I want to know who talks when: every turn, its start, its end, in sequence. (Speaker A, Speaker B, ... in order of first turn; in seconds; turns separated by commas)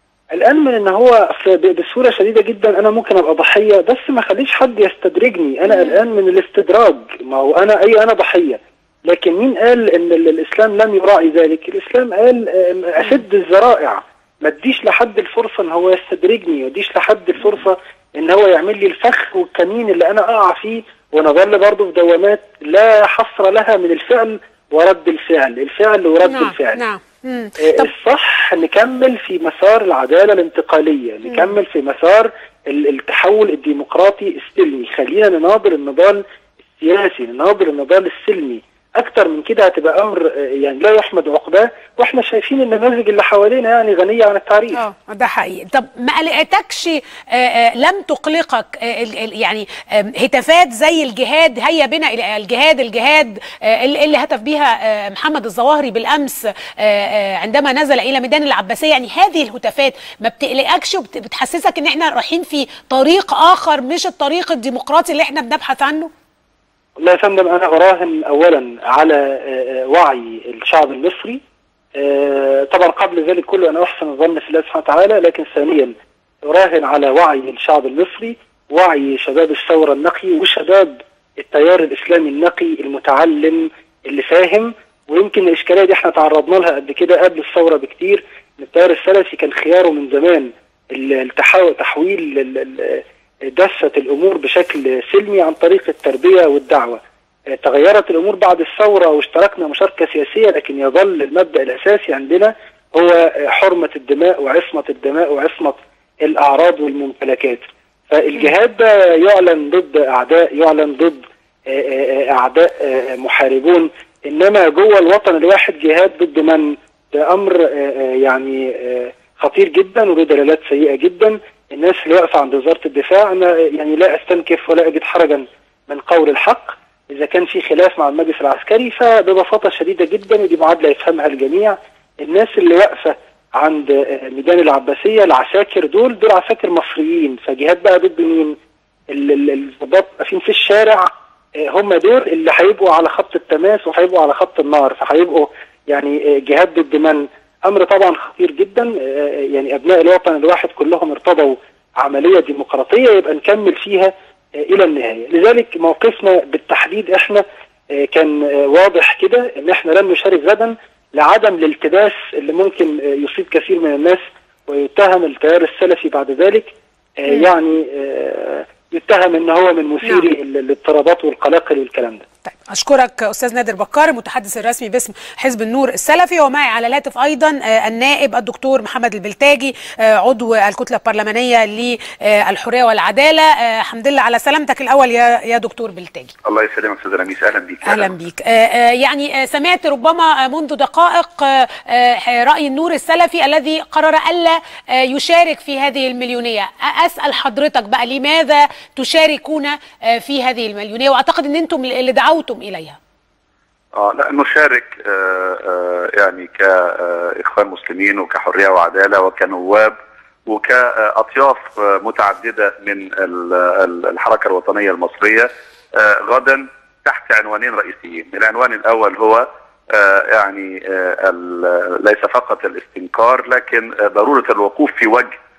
Speaker A: 0.3-26.8, Speaker B: 26.2-27.9, Speaker A: 27.6-36.2, Speaker A: 36.8-44.8, Speaker B: 44.7-66.1, Speaker A: 67.0-71.4, Speaker A: 72.0-138.6, Speaker A: 139.1-157.4, Speaker A: 157.9-172.2, Speaker B: 172.4-186.3, Speaker C: 186.4-188.1, Speaker B: 187.8-203.0, Speaker C: 203.9-209.9, Speaker C: 210.5-225.3